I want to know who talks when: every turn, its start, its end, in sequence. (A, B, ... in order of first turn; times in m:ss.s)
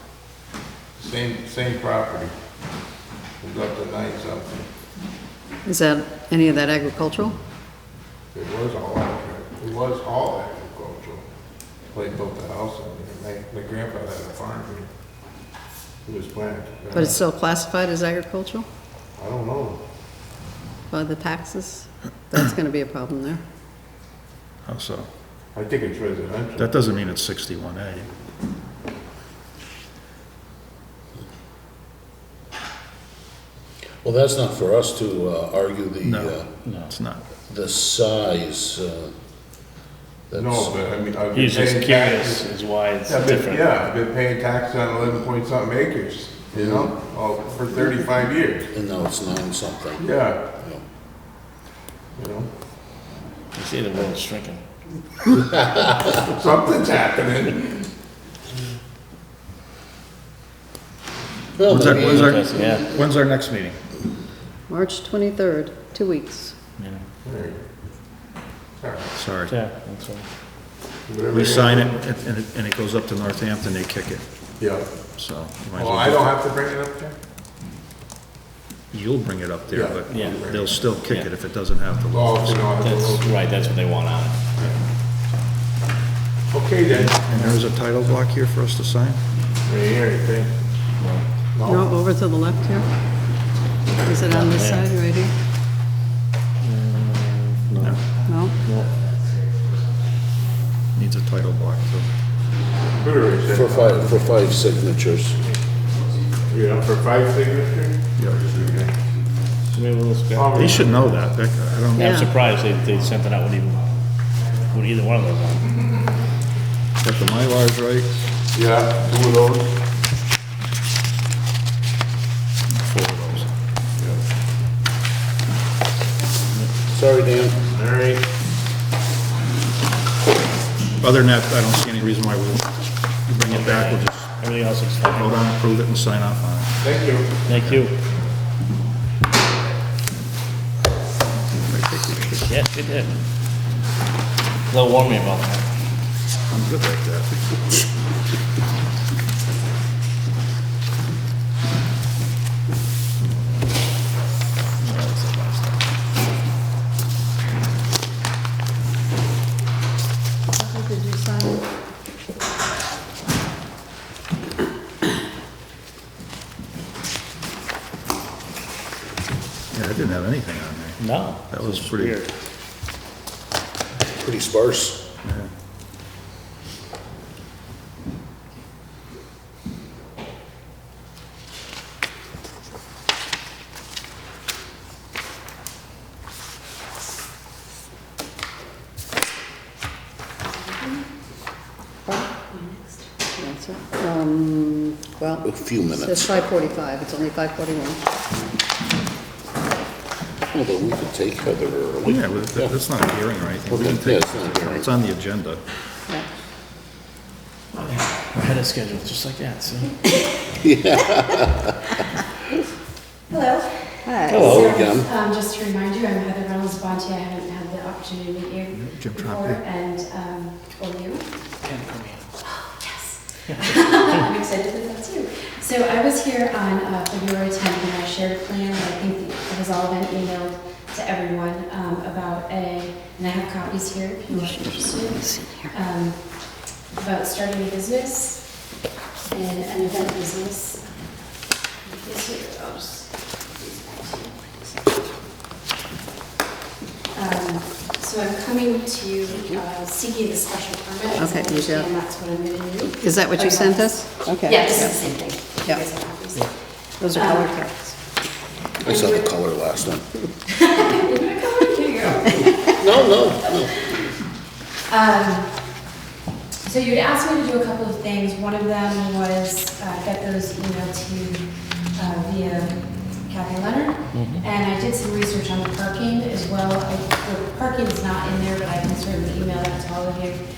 0:01.0-0:02.3 A
0:03.4-0:04.7 A
0:05.6-0:07.4 B
0:08.3-0:11.2 A
0:11.9-0:14.9 A
0:16.0-0:17.1 A
0:16.9-0:18.7 B
0:19.2-0:19.8 A
0:20.9-0:23.4 B
0:24.6-0:25.1 C
0:25.5-0:26.7 A
0:26.6-0:28.1 C
0:34.0-0:36.5 D
0:36.0-0:36.4 C
0:36.6-0:36.9 E
0:36.9-0:37.3 C
0:37.5-0:39.1 D
0:40.3-0:40.7 D
0:40.3-0:42.4 A
0:41.3-0:43.7 E
0:43.1-0:48.7 A
0:46.5-0:46.9 D
0:48.7-0:50.0 D
0:50.0-0:50.4 A
0:52.2-0:52.5 A
0:53.5-0:54.6 E
0:56.2-0:57.8 A
1:01.6-1:02.3 D
1:01.6-1:03.8 C
1:01.9-1:02.9 E
1:04.7-1:06.5 B
1:06.8-1:07.0 E
1:07.2-1:07.6 A
1:08.8-1:09.0 A
1:09.2-1:09.6 C
1:09.5-1:10.3 E
1:11.1-1:11.9 A
1:11.3-1:14.2 C
1:14.6-1:14.9 A
1:15.2-1:16.3 C
1:15.8-1:17.1 A
1:18.9-1:22.8 C
1:19.7-1:20.8 A
1:20.1-1:20.4 E
1:22.1-1:23.7 A
1:22.8-1:24.4 E
1:26.5-1:27.6 A
1:26.9-1:29.2 C
1:29.6-1:30.7 A
1:31.0-1:31.2 E
1:31.5-1:31.9 A
1:31.6-1:32.8 B
1:34.0-1:35.3 B
1:34.3-1:34.9 E
1:36.6-1:38.9 E
1:37.8-1:38.0 C
1:38.2-1:38.5 B
1:40.9-1:42.1 C
1:42.9-1:44.1 A
1:43.5-1:45.4 D
1:46.5-1:48.9 A
1:48.2-1:48.5 C
1:49.7-1:50.8 E
1:50.3-1:51.3 A
1:50.5-1:52.2 C
1:51.9-1:52.3 B
1:52.0-1:53.8 E
1:54.6-1:55.7 E
1:57.0-1:58.1 C
1:58.5-1:59.8 A
2:02.7-2:03.5 C
2:06.9-2:07.6 D
2:07.7-2:08.2 A
2:11.0-2:14.3 C
2:13.5-2:15.4 E
2:15.0-2:16.9 C
2:16.8-2:17.4 A
2:17.4-2:18.0 E
2:17.5-2:17.8 C
2:21.5-2:22.5 C
2:22.4-2:23.2 E
2:24.7-2:25.7 E
2:26.5-2:27.8 C
2:34.8-2:35.8 E
2:40.5-2:41.6 B
2:49.7-2:52.2 C
2:51.0-2:52.3 E
2:54.1-2:55.0 D
2:55.2-2:55.5 C
3:13.4-3:18.0 B
3:15.4-3:16.5 D
3:20.5-3:22.7 D
3:22.0-3:25.6 C
3:23.7-3:24.8 D
3:27.7-3:30.0 E
3:30.6-3:31.7 D
3:33.3-3:33.6 F
3:34.1-3:34.4 B
3:34.3-3:34.7 E
3:34.3-3:35.1 D
3:34.8-3:38.7 F
3:38.7-3:39.7 C
3:39.7-3:41.2 F
3:41.6-3:42.2 E
3:43.5-3:43.9 E
3:43.6-3:55.1 F
3:54.3-3:55.6 B
3:55.8-3:56.5 F
3:57.0-3:58.4 F
3:59.3-4:00.8 F
4:07.2-4:11.1 F
4:11.2-4:11.9 B
4:11.9-4:12.9 F
4:13.0-4:15.0 B
4:14.6-4:16.3 F
4:17.0-4:17.9 B
4:18.8-4:20.1 D
4:20.5-4:22.6 F
4:22.8-4:23.8 D
4:24.9-4:25.6 F
4:26.6-4:31.4 F
4:32.0-4:40.4 F
4:34.1-4:34.4 E